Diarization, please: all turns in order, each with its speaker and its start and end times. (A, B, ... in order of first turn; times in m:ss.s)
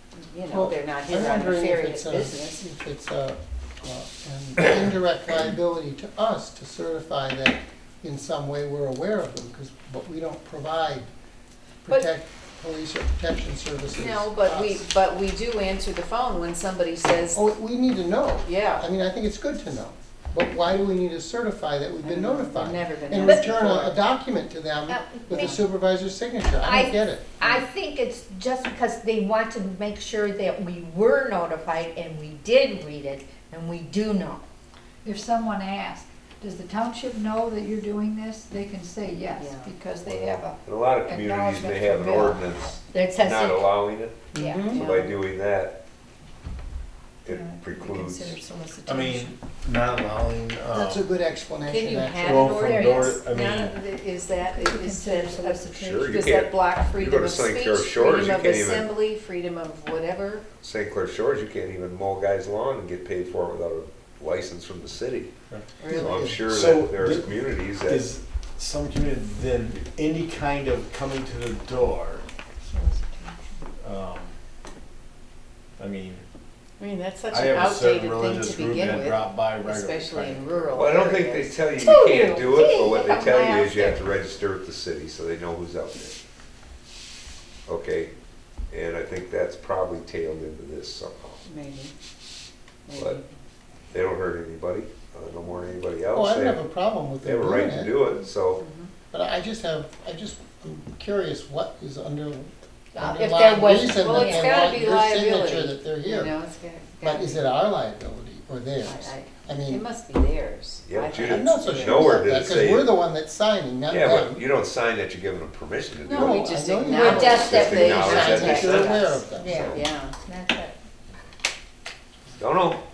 0:00.2-0:02.6 A
0:00.5-0:11.1 B
0:11.8-0:14.8 B
0:13.9-0:17.4 A
0:17.3-0:27.4 B
0:18.4-0:18.9 A
0:22.0-0:24.0 A
0:24.9-0:25.6 C
0:25.3-0:25.6 A
0:26.6-0:34.4 C
0:35.0-0:42.6 D
0:39.3-0:39.7 A
0:40.0-0:45.8 E
0:42.9-0:43.7 C
0:44.3-0:44.9 B
0:44.7-0:45.2 A
0:47.2-0:48.4 E
0:47.2-0:49.3 D
0:48.8-0:51.1 F
0:50.7-0:52.7 B
0:51.6-1:00.4 A
0:52.2-0:53.8 F
0:54.4-0:56.3 D
0:55.7-0:58.9 E
1:00.6-1:05.3 E
1:05.8-1:06.3 A
1:05.9-1:08.1 E
1:05.9-1:06.4 B
1:06.4-1:12.3 F
1:12.7-1:13.6 D
1:13.8-1:14.3 F
1:15.8-1:16.2 F
1:16.8-1:21.6 A
1:17.3-1:20.6 F
1:20.7-1:26.2 E
1:21.8-1:24.1 C
1:27.7-1:28.1 E
1:28.7-1:31.4 E
1:31.4-1:31.9 A
1:32.9-1:33.3 A
1:33.9-1:36.7 E
1:36.1-1:38.0 B
1:37.2-1:38.6 E
1:38.6-1:38.9 A
1:39.1-1:46.3 B
1:42.9-1:44.6 C
1:43.6-1:47.4 A
1:47.0-1:49.8 B
1:48.8-1:52.2 A
1:50.8-1:53.0 E
1:51.1-1:54.4 B
1:53.9-1:59.0 E
1:56.1-2:00.2 A
1:56.1-1:59.8 B
1:56.9-2:00.8 C
1:59.5-1:59.8 E
2:02.4-2:02.8 E